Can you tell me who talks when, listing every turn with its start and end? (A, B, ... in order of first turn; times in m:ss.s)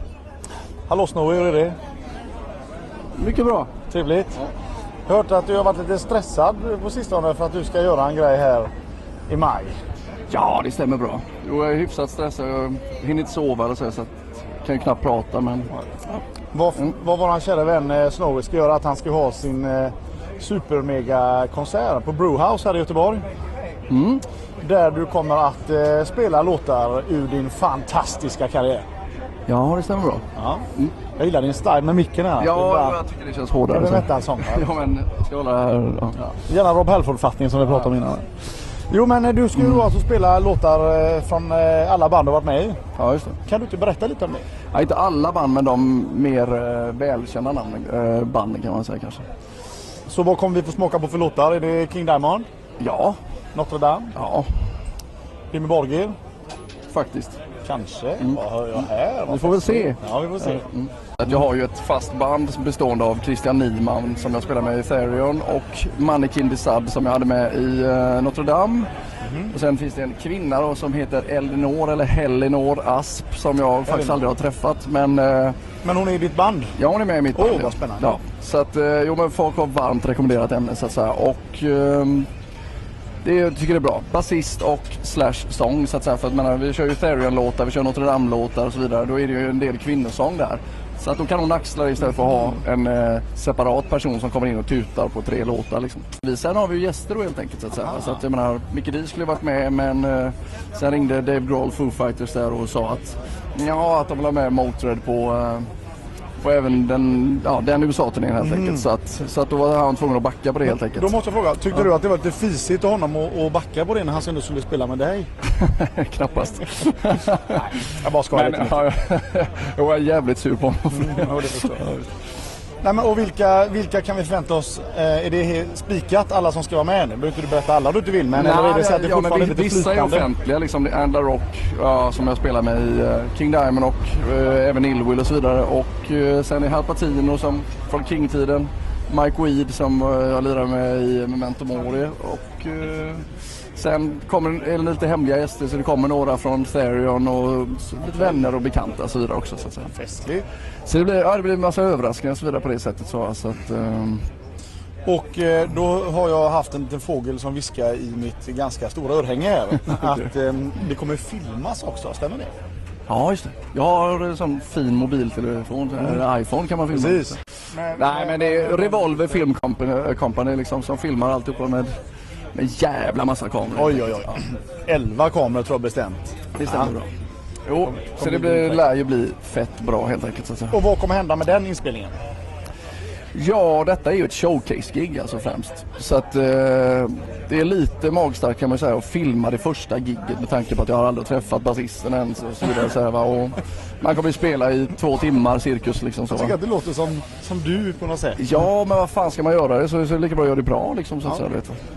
0:00.9-0:01.8 A
0:03.2-0:03.7 B
0:03.9-0:04.4 A
0:05.1-0:08.7 A
0:09.3-0:09.7 A
0:10.3-0:16.2 B
0:16.5-0:23.2 A
0:23.9-0:24.2 B
0:24.6-0:28.8 A
0:29.5-0:30.9 B
0:30.4-0:30.6 A
0:31.2-0:33.0 A
0:32.4-0:36.2 B
0:33.7-0:34.7 A
0:36.2-0:38.2 A
0:38.9-0:42.8 A
0:43.0-0:43.4 B
0:43.4-0:44.4 A
0:44.7-0:49.2 B
0:50.1-0:52.4 A
0:52.8-0:53.2 B
0:53.5-0:54.1 A
0:54.1-0:54.5 B
0:55.5-0:56.1 A
0:56.9-0:57.4 B
0:57.6-1:00.6 A
0:59.3-1:08.9 B
1:09.2-1:09.5 A
1:09.5-1:15.5 B
1:13.9-1:14.1 A
1:15.8-1:16.7 A
1:16.8-1:22.3 B
1:17.3-1:18.1 A
1:23.2-1:45.7 B
1:46.4-1:51.1 B
1:48.4-1:48.8 A
1:50.7-1:55.3 A
1:55.4-1:57.8 B
1:57.8-1:58.8 A
1:58.3-2:02.0 B
2:00.9-2:01.9 A
2:02.8-2:10.3 A
2:08.3-2:23.2 B
2:23.8-2:29.9 B
2:29.9-2:30.4 A
2:30.8-2:34.2 B
2:35.0-2:42.5 A
2:43.1-2:47.4 B
2:46.9-2:49.4 A
2:47.9-2:51.9 B
2:52.5-2:54.3 B
2:53.8-2:56.9 A
2:56.6-2:57.1 B
2:57.6-3:00.8 B
2:57.9-2:58.8 A
3:00.7-3:02.1 A
3:03.3-3:16.5 B
3:16.3-3:18.4 A
3:18.4-3:21.8 B